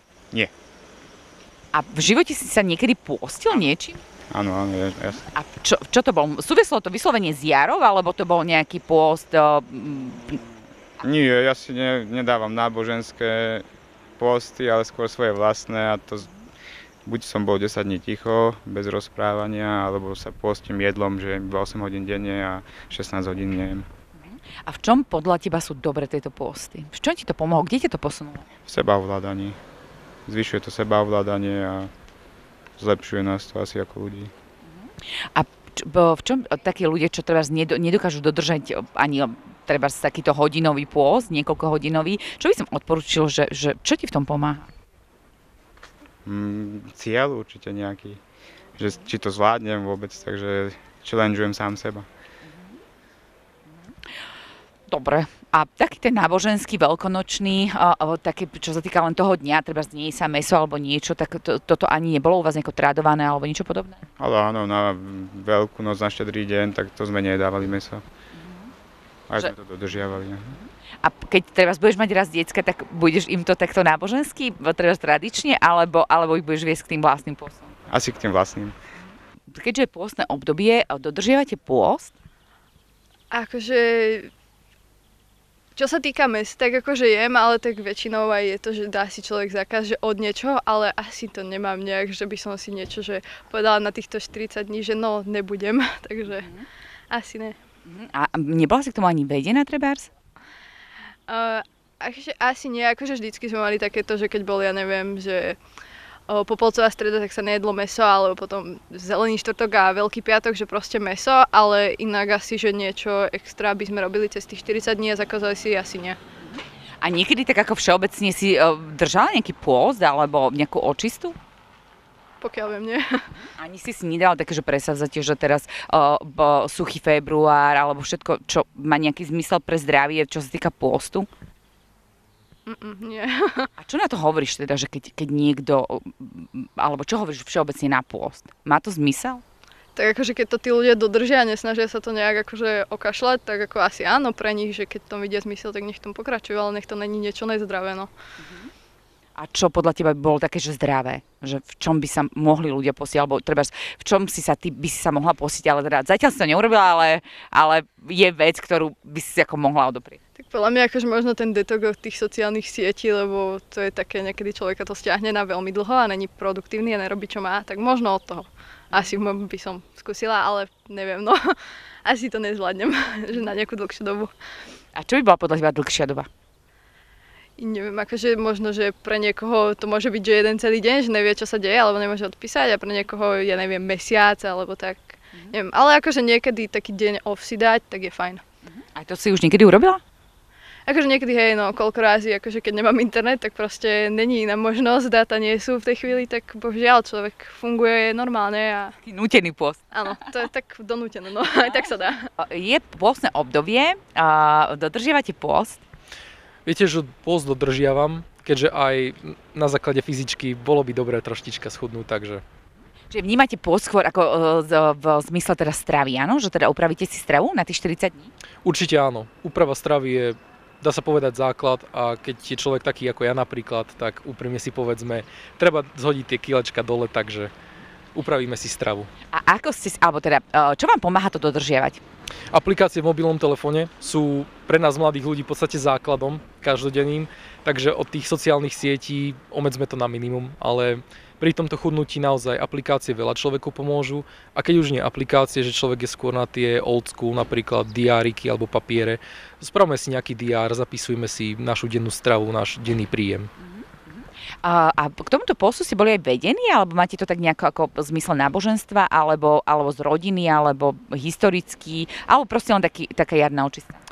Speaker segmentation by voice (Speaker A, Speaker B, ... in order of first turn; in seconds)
Speaker A: 1.7-4.0, 5.3-10.4, 24.2-28.5, 34.8-44.7, 54.9-64.0, 71.0-77.7, 79.5-82.1, 96.4-96.6, 97.9-100.1, 116.4-121.4, 123.6-131.3, 133.8-139.4, 149.3-160.2, 174.9-176.3, 188.7-190.0, 199.0-199.8, 202.4-205.8, 213.1-218.3, 229.3-232.0, 253.6-264.0
Speaker B: 4.3-5.2, 11.0-13.7, 14.2-16.3, 17.1-23.9, 28.7-29.6, 30.3-31.9, 32.8-34.3, 46.3-48.2, 48.8-52.1, 64.2-68.0, 69.3-70.6, 77.9-78.8
Speaker C: 83.3-84.3, 85.8-96.5, 97.1-97.6, 101.3-105.6, 106.3-116.2, 122.4-123.2, 132.7-133.7, 140.0-148.1, 160.4-174.3, 177.6-188.4, 190.9-198.9, 199.9-202.2
Speaker D: 206.7-212.4, 218.6-227.5, 228.2-229.1, 232.5-253.5